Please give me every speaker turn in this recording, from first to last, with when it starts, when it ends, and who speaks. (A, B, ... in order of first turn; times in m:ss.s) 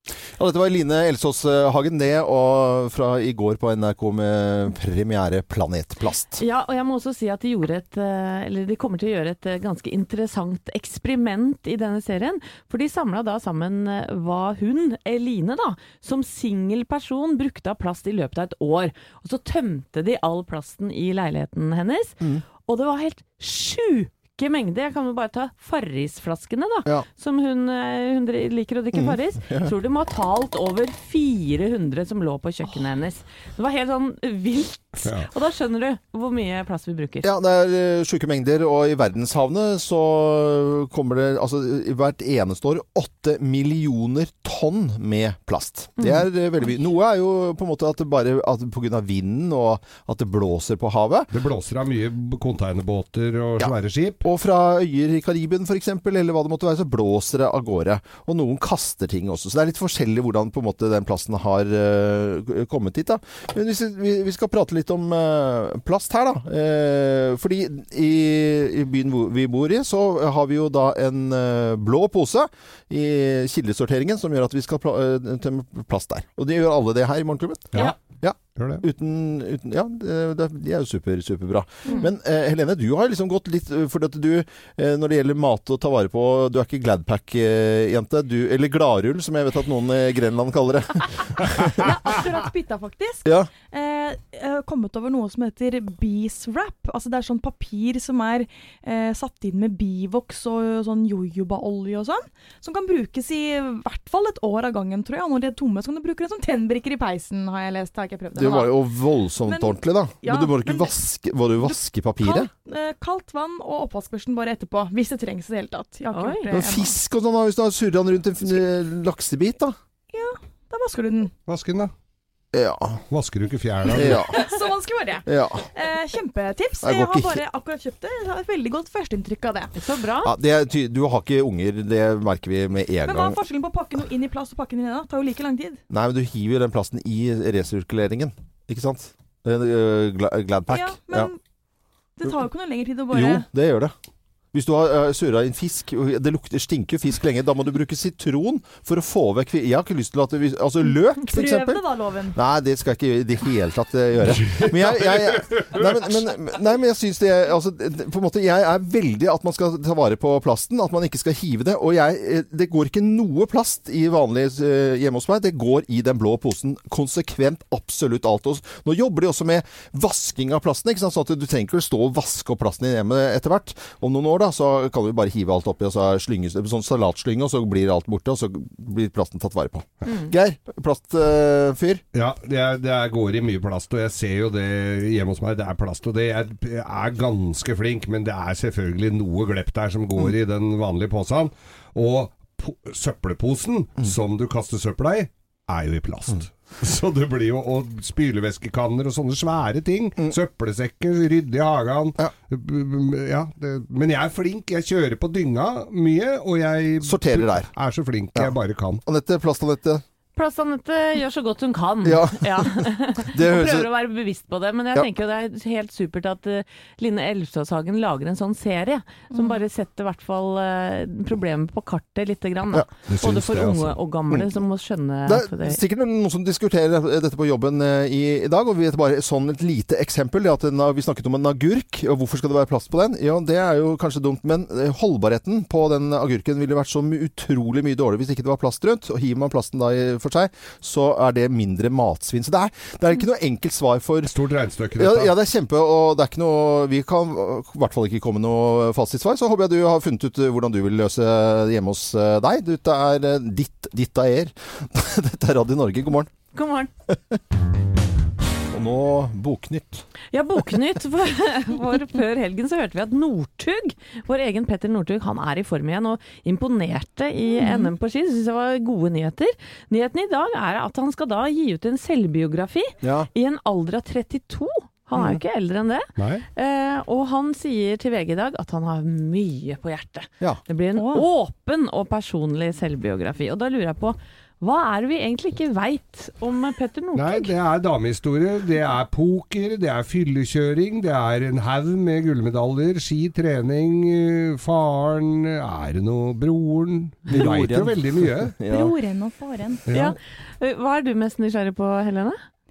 0:00.4-0:06.4 A
0:06.4-0:37.3 B
0:28.9-0:29.7 A
0:37.2-0:51.3 A
0:46.0-0:46.2 B
0:51.3-0:54.2 C
0:53.6-1:31.7 A
1:18.5-1:18.8 C
1:31.8-1:48.8 D
1:33.2-1:33.5 A
1:48.3-1:52.5 A
1:49.5-1:50.9 D
1:51.6-1:56.9 D
1:56.1-1:56.5 B
1:56.5-1:59.8 A
2:00.1-2:01.3 D
2:01.5-2:01.9 C
2:02.5-2:03.0 A
2:03.1-2:04.4 C
2:03.9-2:04.4 A
2:04.3-2:09.7 D
2:05.2-2:05.7 A
2:06.8-2:07.4 A
2:09.8-2:10.3 B
2:10.2-2:13.4 A
2:13.0-2:15.8 D
2:15.9-2:21.3 A
2:20.7-2:21.4 D
2:22.2-2:23.4 D
2:23.1-2:23.9 A
2:24.5-2:31.8 A
2:31.3-2:32.4 D
2:32.3-3:02.0 A
2:34.4-2:36.1 C
3:02.1-3:29.0 C
3:27.0-3:27.7 A
3:28.3-3:30.0 A
3:30.4-3:45.8 B
3:32.0-3:33.9 A
3:39.3-3:39.6 D
3:43.1-3:44.0 C
3:45.2-4:04.3 A
4:04.3-4:05.3 C
4:05.0-4:16.3 A
4:16.5-4:16.9 B
4:17.1-4:17.4 A
4:18.7-4:20.0 A
4:20.3-4:47.5 B
4:27.5-4:27.9 D
4:33.0-4:33.3 A
4:36.2-4:36.4 C
4:41.0-4:41.2 D
4:47.1-4:58.6 C
4:57.3-4:58.9 A
4:58.7-4:59.8 D
4:59.9-5:00.2 C
4:59.9-5:02.4 B